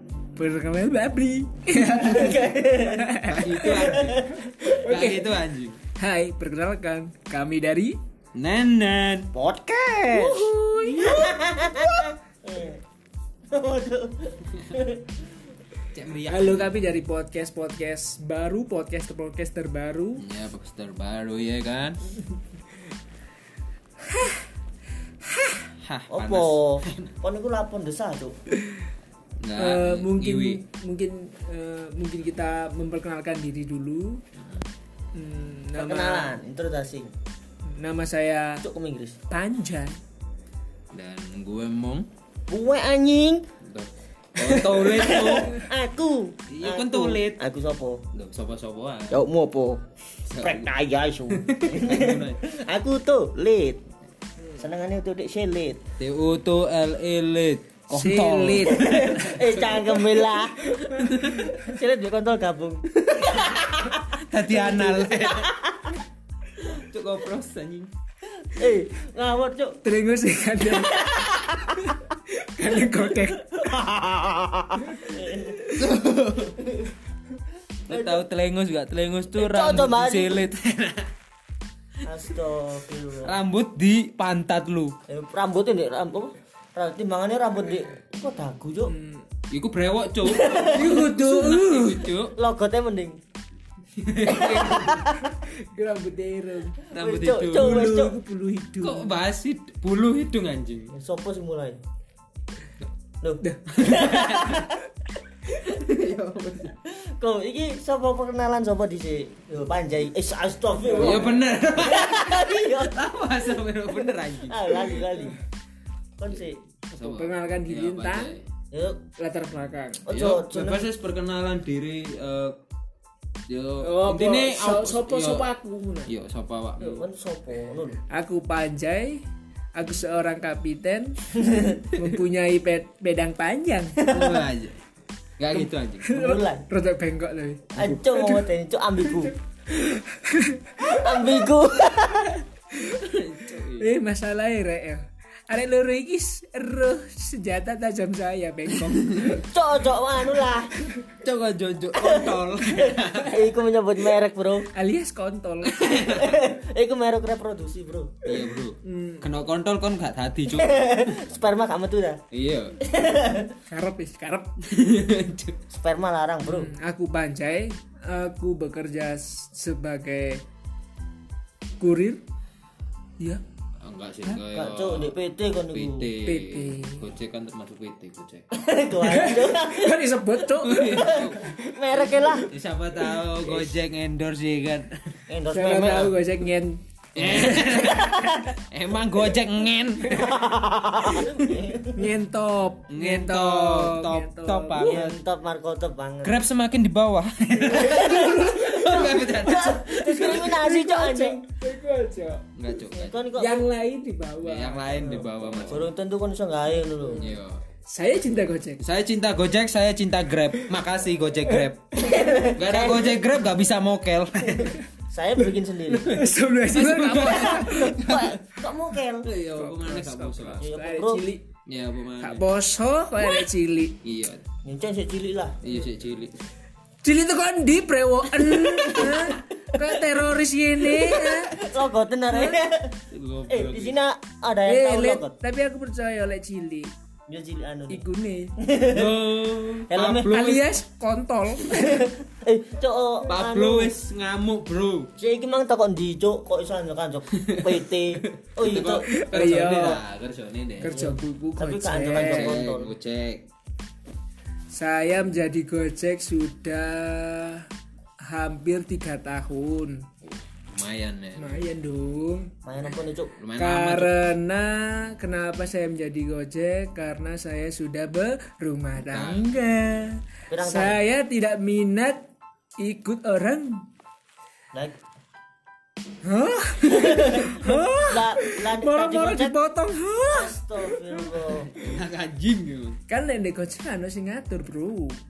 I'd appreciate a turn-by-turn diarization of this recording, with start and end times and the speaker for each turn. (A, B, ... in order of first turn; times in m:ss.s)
0:00.4-0:05.4 A
0:01.9-0:04.5 B
0:03.2-0:05.8 C
0:06.0-0:08.0 A
0:08.3-0:09.3 C
0:09.3-0:12.8 B
0:10.1-0:12.1 A
0:13.5-0:15.1 B
0:15.9-0:16.7 C
0:16.3-0:20.2 A
0:20.2-0:22.1 C
0:24.1-0:24.4 A
0:25.3-0:25.6 A
0:25.8-0:27.1 C
0:26.1-0:28.3 B
0:29.4-0:30.6 C
0:29.6-0:34.2 A
0:34.4-0:34.7 C
0:35.1-0:36.4 A
0:35.8-0:37.1 B
0:37.7-0:38.6 A
0:38.6-0:39.2 B
0:39.3-0:40.0 A
0:40.9-0:42.1 C
0:42.5-0:43.4 B
0:43.7-0:45.6 C
0:44.4-0:48.0 B
0:46.5-0:47.4 C
0:48.1-0:49.2 C
0:49.1-0:49.8 B
0:50.3-0:50.7 C
0:50.4-0:53.8 B
0:51.3-0:52.4 C
0:54.6-0:55.8 B
0:56.0-0:59.7 C
0:57.9-0:59.3 A
0:58.7-1:06.0 B
1:00.8-1:01.6 C
1:04.2-1:05.5 C
1:06.6-1:07.9 C
1:08.4-1:09.8 B
1:09.8-1:11.3 A
1:10.7-1:12.0 B
1:11.8-1:13.5 A
1:13.5-1:15.7 B
1:15.7-1:16.6 C
1:16.5-1:16.9 B
1:17.9-1:21.1 C
1:17.9-1:18.2 B
1:19.3-1:20.4 B
1:22.0-1:23.3 B
1:23.2-1:24.9 C
1:25.1-1:28.9 B
1:28.8-1:29.2 A
1:29.5-1:32.3 C
1:30.2-1:31.0 B
1:30.6-1:32.0 A
1:32.4-1:33.2 B
1:34.0-1:35.0 C
1:34.3-1:35.3 B
1:35.7-1:36.8 A
1:36.9-1:37.9 C
1:36.9-1:38.2 B
1:37.5-1:39.2 A
1:38.8-1:40.9 C
1:40.9-1:41.8 B
1:43.2-1:44.8 B
1:43.7-1:44.6 C
1:45.5-1:46.8 C
1:46.8-1:53.0 B
1:50.9-1:54.8 C
1:50.9-1:51.2 A
1:53.9-1:55.4 B
1:56.2-1:56.6 B
1:56.3-1:58.4 C
1:57.0-1:58.4 A
1:58.7-1:59.0 B
1:59.2-2:00.0 A
2:00.0-2:00.9 B
2:00.1-2:02.6 C
2:03.5-2:05.5 C
2:03.8-2:06.1 A
2:06.0-2:07.0 C
2:06.8-2:08.0 B
2:08.1-2:09.2 A
2:09.8-2:14.0 A
2:11.4-2:11.8 B
2:14.0-2:14.4 B
2:14.0-2:14.8 C
2:15.4-2:16.1 C
2:16.0-2:18.4 A
2:16.1-2:16.6 B
2:17.7-2:19.3 B
2:19.7-2:21.2 A
2:20.8-2:22.4 B
2:22.8-2:23.9 C
2:23.8-2:29.5 A
2:29.3-2:30.7 B
2:31.2-2:33.4 C
2:32.0-2:32.4 B
2:33.3-2:34.7 B
2:34.7-2:35.8 A
2:35.6-2:36.5 C
2:35.9-2:38.3 B
2:38.2-2:40.8 C
2:38.8-2:39.3 A
2:40.5-2:42.2 B
2:42.3-2:42.8 C
2:42.8-2:43.6 B
2:43.7-2:44.5 A
2:44.7-2:45.6 C
2:45.7-2:46.7 B
2:46.4-2:50.4 A
2:51.8-2:52.2 A
2:53.8-2:55.2 C
2:54.5-2:56.1 B
2:55.7-2:58.4 C
2:56.2-2:57.1 A
2:58.5-3:00.0 B
2:59.1-3:01.2 A
3:00.6-3:01.5 C
3:01.0-3:02.5 B
3:02.3-3:04.9 C
3:05.3-3:06.1 B
3:05.5-3:07.6 A
3:07.2-3:10.3 C
3:07.3-3:08.4 B
3:10.0-3:10.4 A
3:10.1-3:12.1 B
3:11.2-3:11.6 C
3:11.9-3:15.0 A
3:12.9-3:15.2 C
3:14.9-3:16.4 B
3:16.2-3:20.5 C
3:17.6-3:22.4 A
3:17.7-3:21.4 B
3:22.6-3:23.3 C
3:22.9-3:23.7 B
3:23.4-3:25.0 A
3:24.4-3:25.9 C
3:25.0-3:27.3 B
3:27.1-3:27.3 A
3:27.2-3:27.6 C
3:27.9-3:28.8 A
3:28.8-3:32.0 C
3:32.0-3:33.2 B
3:32.5-3:34.8 C
3:34.7-3:36.3 B
3:35.9-3:37.9 A
3:36.7-3:38.5 C
3:37.3-3:39.3 B
3:39.2-3:40.7 C
3:39.6-3:41.5 A
3:40.6-3:41.2 B
3:41.7-3:42.4 C
3:42.2-3:44.0 A
3:44.0-3:44.4 C
3:44.6-3:45.6 B
3:45.6-3:46.3 C
3:47.0-3:51.6 A
3:48.9-3:49.3 B
3:51.0-3:53.0 B
3:52.3-3:52.6 A
3:53.1-3:54.0 C
3:53.5-3:55.3 B
3:54.7-3:56.9 A
3:57.3-3:58.0 B
3:57.9-3:58.5 A
3:58.6-3:59.2 B
3:58.8-4:00.7 C
3:59.9-4:00.3 B
4:00.3-4:02.1 A
4:01.7-4:03.9 B
4:03.3-4:05.1 C
4:05.2-4:09.1 B
4:07.4-4:07.8 C
4:08.4-4:11.0 C
4:09.0-4:10.0 A
4:10.8-4:12.5 A
4:10.9-4:12.9 B
4:12.1-4:13.4 C
4:14.7-4:17.7 A
4:18.3-4:20.1 A
4:20.2-4:21.6 C
4:21.4-4:22.5 A
4:22.6-4:23.3 B
4:23.4-4:24.1 C
4:23.6-4:32.3 A
4:29.0-4:29.7 C
4:30.5-4:31.0 B
4:32.8-4:33.9 A
4:36.2-4:41.5 A
4:36.9-4:39.6 B
4:40.3-4:41.7 B
4:41.7-4:43.0 C
4:43.1-4:45.2 A